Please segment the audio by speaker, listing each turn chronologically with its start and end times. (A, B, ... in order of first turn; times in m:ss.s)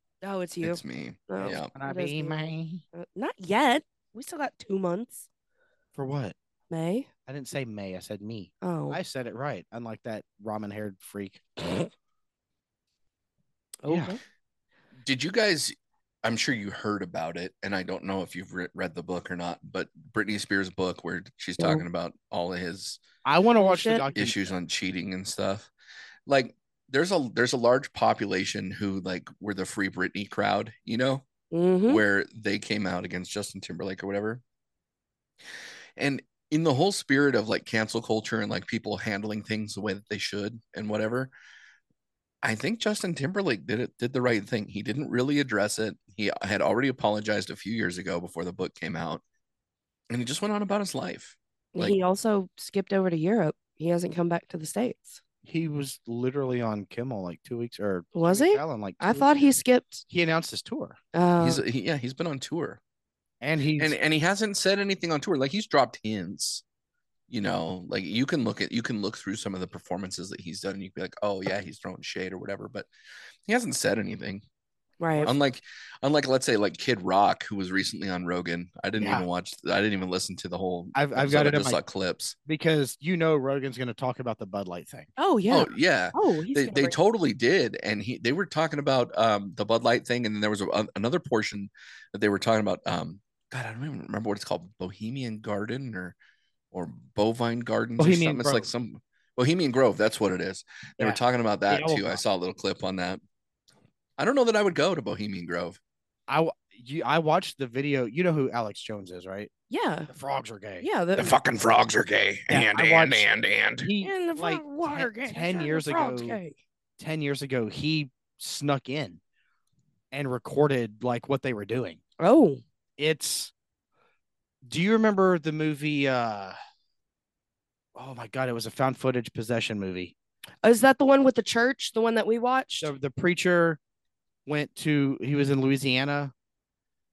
0:00.2-0:05.2 A
0:00.6-0:01.7 B
0:01.4-0:02.8 C
0:06.0-0:06.4 C
0:06.7-0:07.1 A
0:07.3-0:11.7 C
0:08.6-0:09.0 A
0:13.8-0:14.2 A
0:13.9-0:14.2 C
0:15.0-0:23.0 B
0:23.2-0:24.6 C
0:23.6-0:24.0 A
0:24.1-0:25.7 B
0:26.3-0:31.2 B
0:31.5-0:32.0 A
0:31.9-0:34.4 B
0:36.0-0:41.3 B
0:42.4-0:49.2 B
0:50.1-0:52.0 B
0:51.7-0:55.2 A
0:55.4-0:59.6 C
0:58.1-1:00.0 A
1:00.1-1:01.0 C
1:01.1-1:01.6 A
1:01.4-1:02.8 B
1:03.4-1:04.0 C
1:03.8-1:06.6 B
1:07.3-1:12.9 B
1:13.5-1:14.4 B
1:15.0-1:15.3 A
1:15.2-1:22.4 B
1:18.9-1:19.2 C
1:20.9-1:21.8 C
1:22.4-1:25.1 C
1:25.2-1:26.9 A
1:25.5-1:36.2 B
1:36.7-1:43.2 B
1:38.0-1:38.7 C
1:41.0-1:42.2 C
1:44.2-1:45.8 B
1:46.3-1:49.5 C
1:49.7-1:50.1 A
1:50.1-1:50.9 C
1:50.8-1:51.4 A
1:51.2-1:53.9 B
1:52.5-1:53.3 C
1:53.8-1:56.4 C
1:54.0-1:56.6 A
1:57.0-1:59.2 C
2:00.1-2:02.0 C
2:02.2-2:02.6 A
2:03.0-2:03.5 C
2:04.6-2:06.6 C
2:07.9-2:10.1 C
2:10.6-2:12.9 A
2:12.8-2:13.8 C
2:14.4-2:16.3 C